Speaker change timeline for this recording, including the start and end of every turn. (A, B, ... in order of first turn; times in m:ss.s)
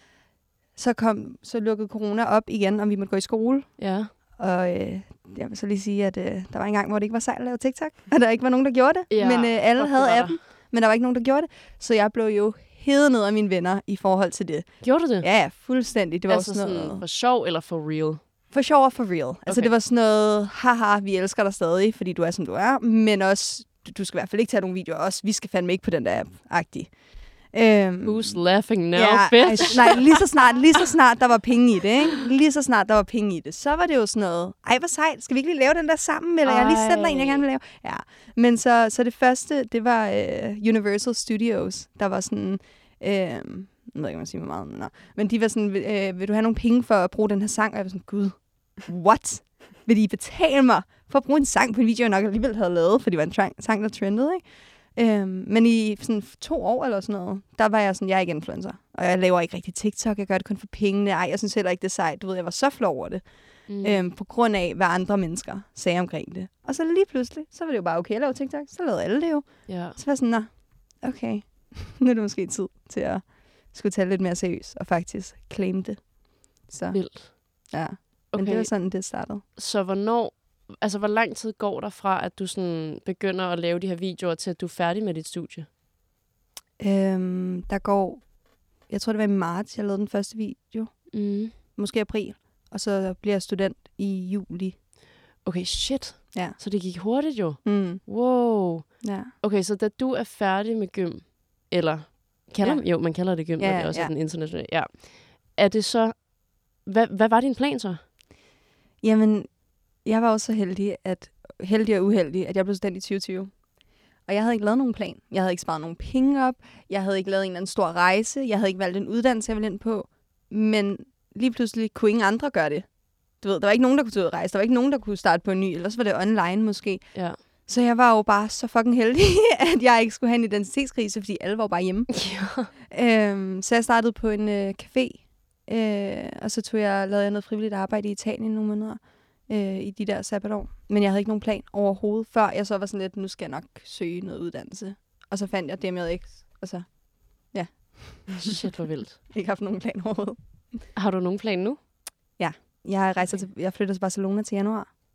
0:00.8-0:17.0 A
0:03.8-0:04.1 B
0:09.1-0:10.4 B
0:14.8-0:15.4 B
0:16.3-0:18.2 B
0:18.5-1:19.4 A
0:19.5-0:19.7 B
0:28.0-0:30.0 B
0:36.4-0:37.5 B
1:03.7-1:04.1 B
1:09.7-1:10.0 B
1:16.9-1:17.7 B
1:18.3-1:19.0 B
1:19.6-1:25.7 B
1:26.8-1:34.8 A
1:31.1-1:31.5 B
1:35.4-1:48.0 B
1:36.3-1:37.0 A
1:37.6-1:39.3 A
1:42.6-1:44.1 A
1:49.0-2:28.6 A
2:12.2-2:12.7 B
2:28.5-2:29.2 B
2:29.2-2:30.8 A
2:31.0-2:31.8 B
2:32.4-2:34.9 A